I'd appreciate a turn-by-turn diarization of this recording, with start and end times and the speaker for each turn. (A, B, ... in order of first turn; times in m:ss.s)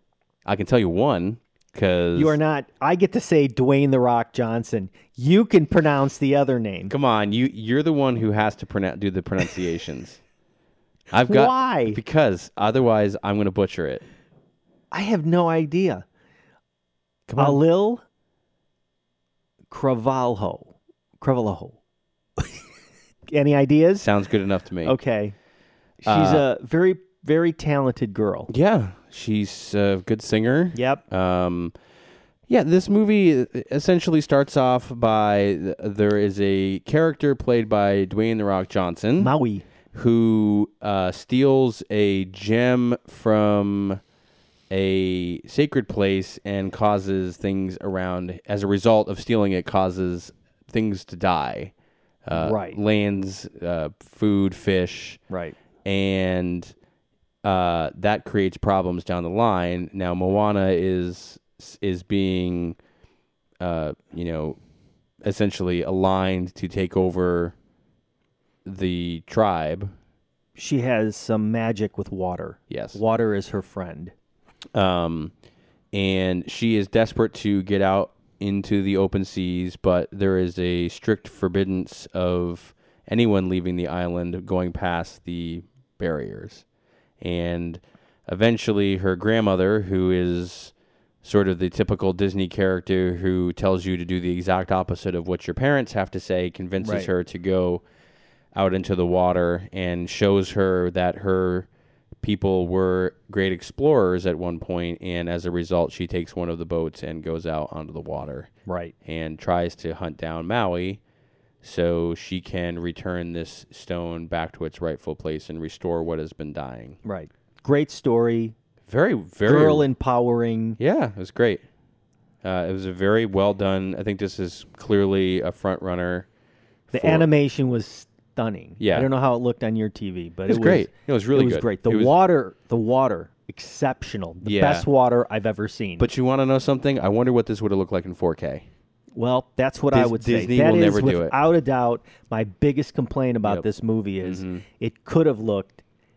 0:00.4-0:02.4 A
0:02.1-0:06.9 B
0:06.9-0:10.2 A
0:11.1-0:14.0 A
0:11.2-0:12.0 B
0:14.9-0:16.0 B
0:17.3-0:17.6 A
0:17.4-0:18.0 B
0:19.7-0:21.8 B
0:23.3-0:24.1 B
0:24.0-0:25.0 A
0:24.8-0:25.3 B
0:26.0-0:28.5 B
0:26.0-0:26.4 A
0:28.5-0:31.7 A
0:30.7-0:31.0 B
0:32.5-0:39.3 A
0:39.2-0:39.6 B
0:39.9-0:44.0 A
0:44.7-0:51.7 A
0:52.2-0:55.2 A
0:52.3-0:52.8 B
0:55.3-0:55.6 B
0:55.8-0:56.7 A
0:57.4-1:02.8 A
1:03.6-1:04.6 A
1:05.2-1:07.5 A
1:08.6-1:09.9 A
1:10.6-1:14.1 B
1:12.7-1:13.0 A
1:14.7-1:15.3 A
1:15.9-1:26.6 A
1:27.2-1:37.8 A
1:36.8-1:37.1 B
1:38.5-1:41.7 A
1:42.2-1:48.5 A
1:48.6-1:48.9 B
1:49.0-1:51.0 A
1:51.6-1:57.0 A
1:57.0-1:58.5 B
1:58.9-1:59.9 A
1:59.4-2:00.8 B
2:00.8-2:01.6 A
2:02.4-2:06.3 A
2:06.9-2:07.3 A
2:06.9-2:16.1 B
2:08.8-2:09.1 A
2:10.5-2:12.1 A
2:14.4-2:14.8 A
2:16.0-2:18.7 A
2:19.1-2:25.8 B
2:19.9-2:21.3 A
2:24.2-2:24.6 A